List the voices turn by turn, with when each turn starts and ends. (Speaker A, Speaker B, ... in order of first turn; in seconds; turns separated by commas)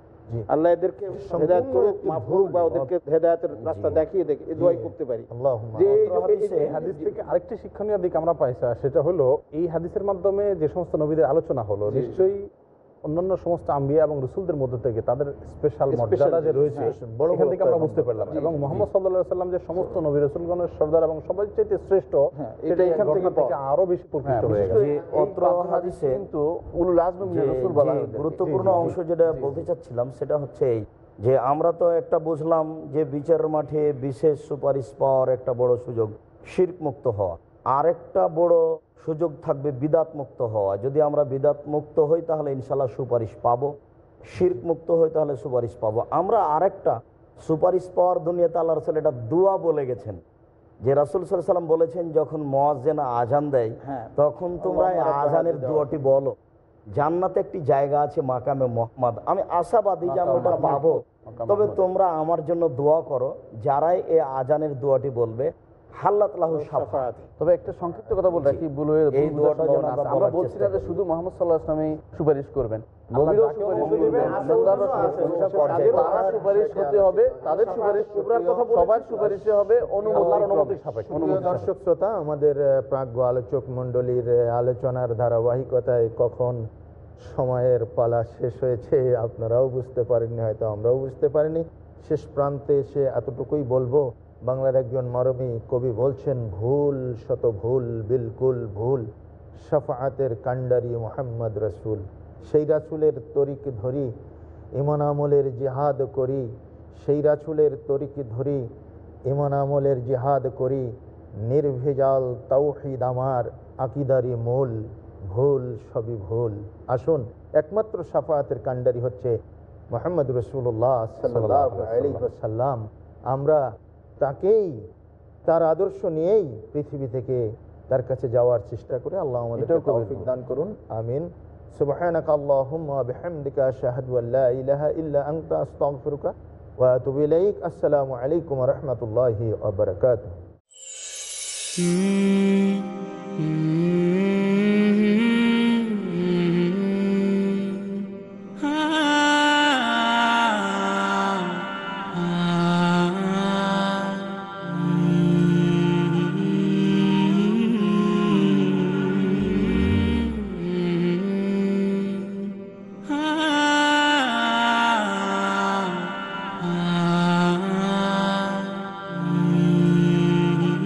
Speaker A: 0.5-7.2, Speaker B: 1.1-2.9, Speaker B: 3.5-4.0, Speaker B: 4.6-6.2, Speaker C: 6.0-6.8, Speaker D: 6.6-12.5, Speaker A: 11.9-12.2, Speaker D: 13.1-24.8, Speaker A: 15.9-16.9, Speaker B: 16.8-18.5, Speaker A: 18.3-18.6, Speaker A: 22.4-23.6, Speaker E: 24.2-29.7, Speaker C: 24.7-26.2, Speaker C: 27.2-43.7, Speaker D: 28.5-28.8, Speaker C: 44.3-46.9, Speaker C: 47.5-50.2, Speaker C: 50.8-56.4, Speaker A: 53.8-54.1, Speaker A: 54.8-55.8, Speaker B: 55.5-56.0, Speaker C: 57.0-67.1, Speaker E: 60.1-61.8, Speaker A: 60.2-60.9, Speaker A: 66.5-67.3, Speaker E: 67.4-81.7, Speaker C: 68.3-71.0, Speaker D: 73.2-75.0, Speaker B: 73.8-79.2, Speaker C: 73.8-76.3, Speaker A: 74.0-76.3, Speaker A: 77.5-79.5, Speaker D: 80.0-81.6, Speaker B: 81.1-86.6, Speaker B: 87.2-99.0, Speaker B: 99.7-104.1, Speaker B: 104.8-106.5, Speaker B: 107.0-108.6, Speaker B: 109.3-110.9, Speaker B: 111.5-114.8, Speaker B: 115.3-119.3, Speaker B: 119.9-123.6, Speaker D: 121.3-122.2, Speaker B: 124.2-124.8, Speaker B: 125.5-140.4, Speaker E: 129.6-130.3